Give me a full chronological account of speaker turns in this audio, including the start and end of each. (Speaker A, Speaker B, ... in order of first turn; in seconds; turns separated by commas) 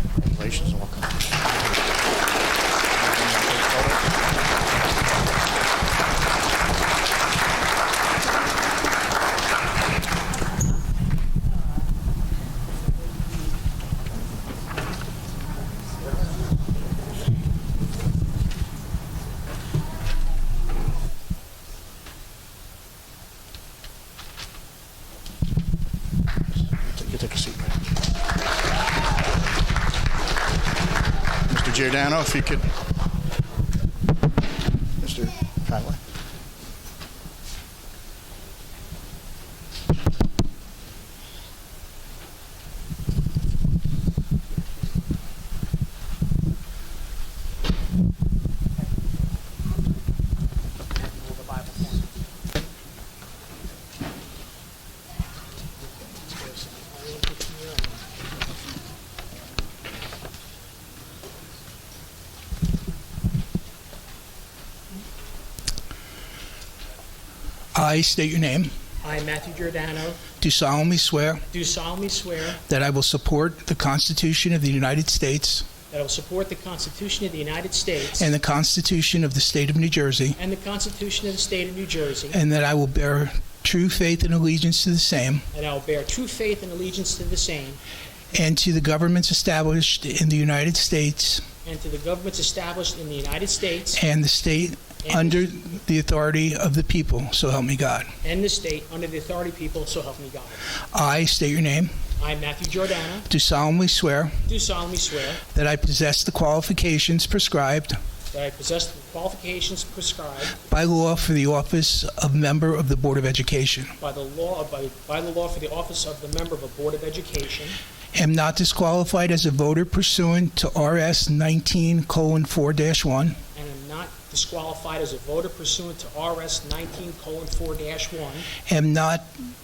Speaker A: 0.2-1.7, Speaker A: 2.9-4.2, Speaker A: 26.8-27.8, Speaker A: 31.5-32.6, Speaker A: 35.0-36.0, Speaker B: 51.0-52.0, Speaker B: 56.0-58.0, Speaker C: 67.7-68.7, Speaker B: 69.0-70.2, Speaker C: 70.4-71.4, Speaker B: 71.5-72.6, Speaker C: 72.7-75.7, Speaker B: 75.9-78.3, Speaker C: 78.2-80.4, Speaker B: 80.4-82.4, Speaker C: 82.3-85.4, Speaker B: 85.5-87.8, Speaker C: 88.3-91.4, Speaker B: 91.6-94.0, Speaker C: 94.0-98.1, Speaker B: 95.0-95.5, Speaker B: 98.2-100.7, Speaker C: 100.9-101.9, Speaker B: 102.2-103.3, Speaker C: 103.3-104.4, Speaker B: 104.5-105.4, Speaker C: 105.5-108.0, Speaker B: 108.3-110.6, Speaker C: 110.7-113.9, Speaker B: 114.0-117.8, Speaker C: 118.1-123.4, Speaker B: 123.5-128.5, Speaker C: 128.7-129.3